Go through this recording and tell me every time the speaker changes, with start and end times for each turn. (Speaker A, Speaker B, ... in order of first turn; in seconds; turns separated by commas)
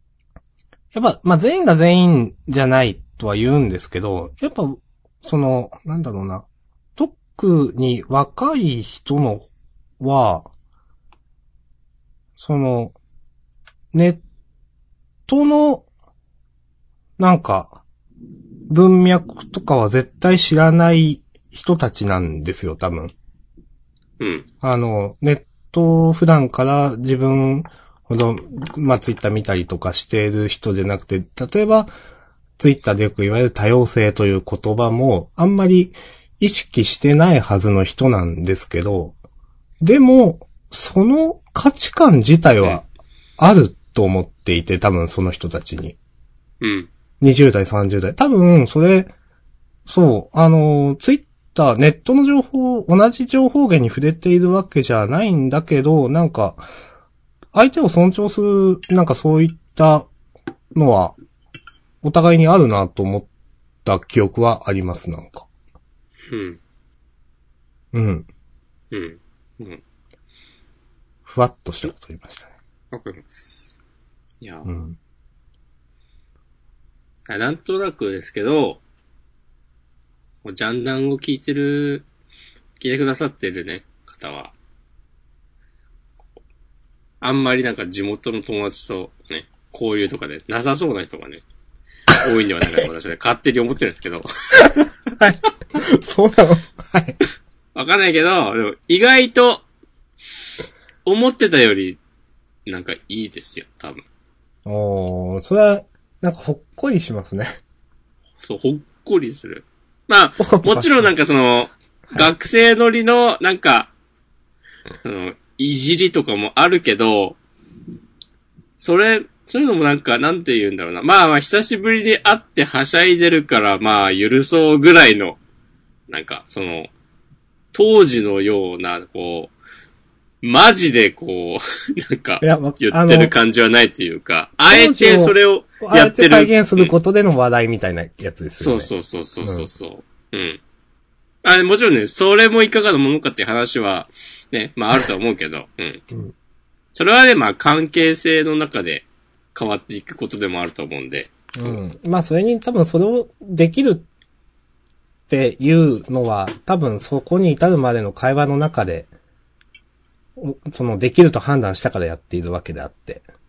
Speaker A: 0.9-9.5, Speaker A: 10.0-10.5, Speaker A: 12.4-12.9, Speaker A: 13.9-14.2, Speaker A: 15.3-15.8, Speaker A: 17.2-17.8, Speaker A: 18.7-23.1, Speaker B: 24.2-24.4, Speaker A: 24.6-31.9, Speaker A: 32.6-39.1, Speaker A: 39.8-42.9, Speaker A: 43.4-46.0, Speaker B: 46.6-46.9, Speaker A: 47.2-49.1, Speaker A: 49.9-56.7, Speaker A: 57.5-60.1, Speaker A: 60.7-61.1, Speaker A: 62.0-63.3, Speaker A: 63.8-65.5, Speaker B: 66.3-66.6, Speaker A: 67.9-68.3, Speaker B: 68.9-69.8, Speaker A: 71.2-72.5, Speaker B: 72.9-73.7, Speaker B: 74.4-74.7, Speaker A: 74.6-75.0, Speaker B: 77.3-78.8, Speaker B: 80.4-82.0, Speaker B: 82.8-84.5, Speaker B: 87.2-91.4, Speaker B: 92.1-94.3, Speaker A: 95.2-97.2, Speaker B: 97.7-99.6, Speaker B: 101.0-102.0, Speaker B: 102.7-104.0, Speaker A: 104.7-107.6, Speaker B: 108.4-113.9, Speaker A: 110.4-111.0, Speaker B: 115.0-117.4, Speaker B: 118.8-125.4, Speaker B: 126.1-126.9, Speaker B: 127.7-129.5, Speaker B: 130.4-136.9, Speaker A: 132.4-133.3, Speaker A: 134.7-138.9, Speaker B: 138.6-140.6, Speaker B: 141.4-146.0, Speaker B: 146.9-151.8, Speaker A: 151.6-154.0, Speaker A: 155.3-159.1, Speaker A: 160.4-163.2